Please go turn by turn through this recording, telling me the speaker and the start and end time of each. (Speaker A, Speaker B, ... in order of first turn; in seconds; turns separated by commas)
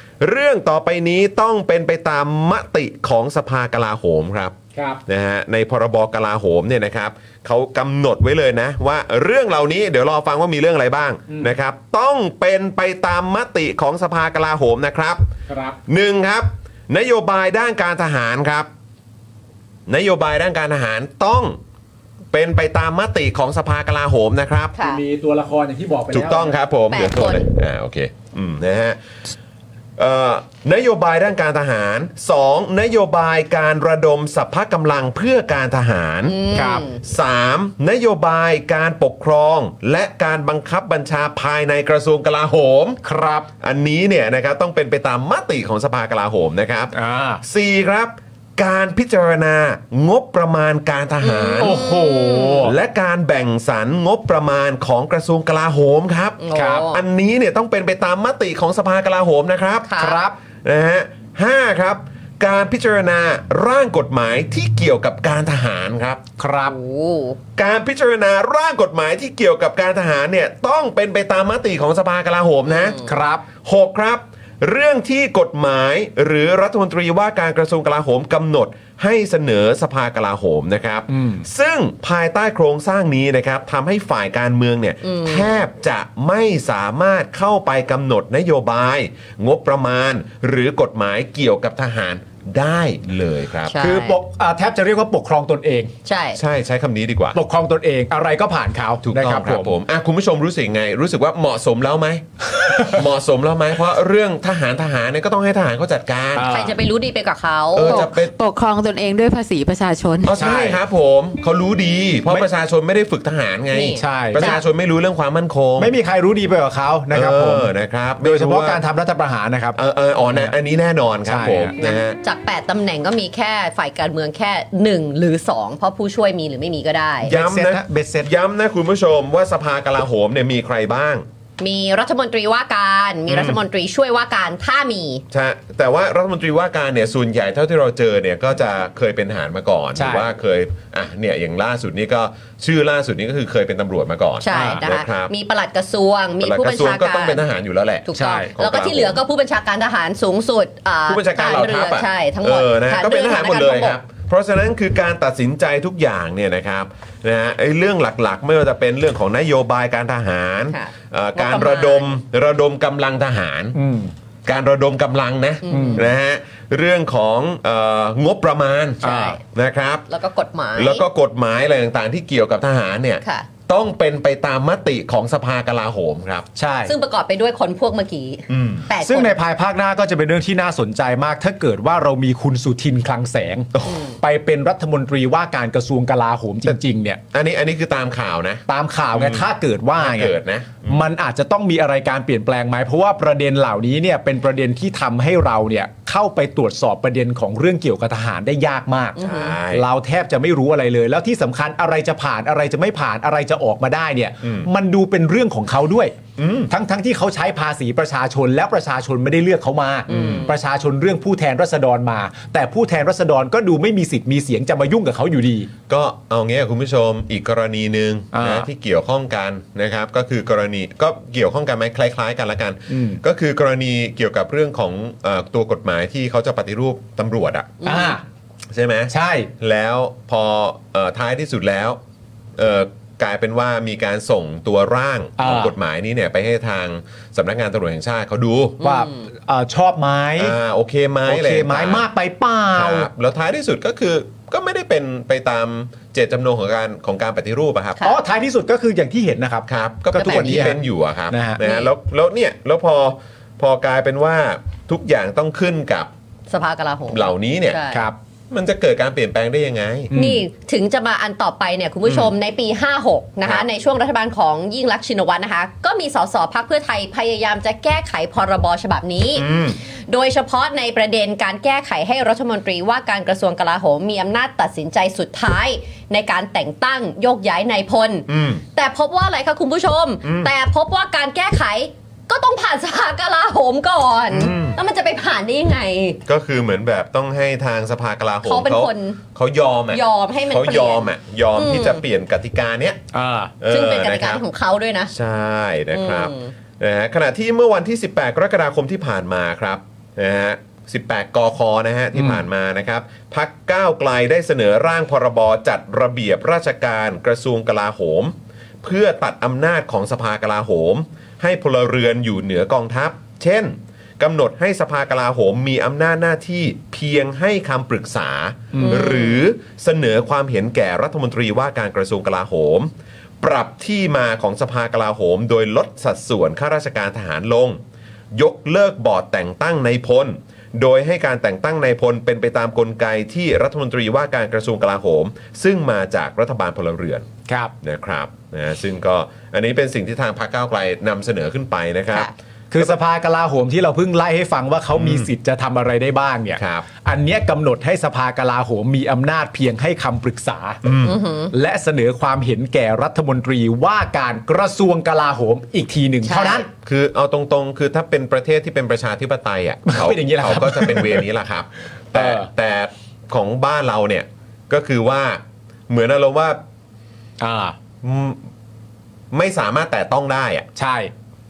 Speaker A: 0.2-4.5, Speaker B: 4.7-5.0, Speaker A: 5.1-15.3, Speaker B: 11.3-11.6, Speaker B: 15.5-15.8, Speaker A: 15.9-18.7, Speaker A: 19.9-21.6, Speaker A: 22.3-24.7, Speaker C: 24.8-25.0, Speaker B: 24.8-26.6, Speaker A: 26.1-29.0, Speaker C: 26.9-27.5, Speaker A: 30.0-36.4, Speaker C: 36.2-37.0, Speaker B: 36.5-36.8, Speaker A: 37.0-43.0, Speaker B: 43.0-43.5, Speaker A: 43.6-51.9, Speaker B: 46.9-47.4, Speaker C: 51.2-52.6, Speaker B: 51.6-52.7, Speaker A: 52.6-59.9, Speaker C: 56.4-57.0, Speaker B: 56.5-56.9, Speaker C: 59.9-60.2, Speaker B: 60.0-60.4, Speaker A: 60.6-66.2, Speaker B: 66.4-66.8, Speaker C: 66.7-67.4, Speaker A: 67.5-73.0, Speaker C: 72.7-73.1, Speaker B: 73.0-73.4, Speaker A: 73.6-93.8, Speaker B: 81.1-81.5, Speaker C: 85.0-85.5, Speaker C: 93.7-94.2, Speaker B: 93.8-95.9, Speaker C: 96.0-96.4, Speaker A: 96.3-97.4, Speaker B: 97.3-99.7, Speaker A: 99.0-106.5, Speaker B: 102.6-103.0, Speaker B: 106.3-106.8, Speaker C: 106.5-108.0, Speaker A: 107.7-108.3, Speaker D: 107.9-110.3, Speaker A: 110.2-115.9, Speaker B: 110.3-110.8, Speaker C: 113.7-114.6, Speaker B: 113.9-114.5, Speaker B: 115.8-120.5, Speaker A: 117.1-118.8, Speaker A: 119.7-122.2, Speaker B: 121.2-121.7, Speaker C: 121.8-127.3, Speaker A: 127.2-131.2, Speaker B: 127.3-128.3, Speaker C: 131.6-135.2, Speaker A: 133.3-133.6, Speaker A: 135.3-145.3, Speaker B: 139.9-140.3, Speaker C: 144.4-147.4, Speaker B: 144.5-144.8, Speaker A: 146.4-149.2, Speaker C: 148.1-154.0, Speaker B: 148.1-148.5, Speaker A: 151.1-163.8, Speaker C: 160.7-162.1, Speaker B: 163.7-164.1, Speaker A: 164.4-170.0, Speaker C: 165.6-166.0, Speaker B: 165.7-166.0, Speaker B: 169.0-169.4, Speaker C: 169.0-169.4, Speaker C: 170.1-171.0, Speaker A: 170.7-176.5, Speaker B: 176.6-176.9, Speaker C: 176.8-179.3, Speaker A: 178.5-178.9, Speaker B: 179.0-187.2, Speaker C: 183.9-184.2, Speaker A: 187.3-191.0, Speaker B: 188.7-199.2, Speaker C: 199.2-199.6, Speaker A: 199.2-199.8, Speaker B: 199.7-206.2, Speaker A: 204.4-204.7, Speaker A: 206.4-206.7, Speaker B: 206.7-215.7, Speaker A: 210.1-210.5, Speaker C: 210.1-210.4, Speaker A: 215.9-227.9, Speaker B: 218.3-218.7, Speaker B: 222.9-223.2, Speaker C: 227.8-228.2, Speaker B: 227.8-228.2, Speaker A: 228.7-232.0, Speaker B: 229.1-229.5, Speaker A: 232.6-238.8, Speaker B: 235.4-235.7, Speaker B: 238.8-240.6, Speaker C: 238.8-239.2, Speaker A: 240.4-242.1, Speaker B: 241.2-243.1, Speaker A: 242.7-248.0, Speaker B: 248.0-250.8, Speaker A: 249.7-256.1, Speaker C: 250.1-250.8, Speaker B: 251.3-251.6, Speaker C: 251.6-251.9, Speaker C: 256.5-258.0, Speaker A: 257.1-257.8, Speaker B: 257.9-258.1, Speaker A: 258.5-260.1, Speaker B: 260.1-260.4, Speaker C: 260.1-286.2, Speaker A: 262.1-262.3, Speaker A: 269.3-269.8, Speaker A: 278.3-278.6, Speaker A: 280.2-280.5, Speaker A: 284.3-284.8, Speaker A: 286.3-293.0, Speaker C: 288.4-289.2, Speaker C: 289.9-292.0, Speaker B: 293.1-293.5, Speaker A: 293.6-294.4, Speaker C: 293.7-295.1, Speaker A: 295.1-327.8, Speaker C: 295.9-296.5, Speaker B: 302.1-302.4, Speaker B: 318.7-319.0, Speaker C: 318.8-319.4, Speaker A: 328.3-337.3, Speaker B: 337.5-337.7, Speaker A: 337.8-342.9, Speaker B: 342.7-350.8, Speaker A: 344.9-345.3, Speaker A: 346.6-346.8, Speaker A: 350.8-351.2, Speaker C: 351.0-351.5, Speaker B: 351.5-356.7, Speaker C: 356.2-356.6, Speaker A: 356.8-366.6, Speaker B: 359.9-361.3, Speaker B: 362.1-362.5, Speaker B: 367.4-367.8, Speaker A: 368.0-368.4, Speaker A: 369.3-370.7, Speaker B: 370.7-371.1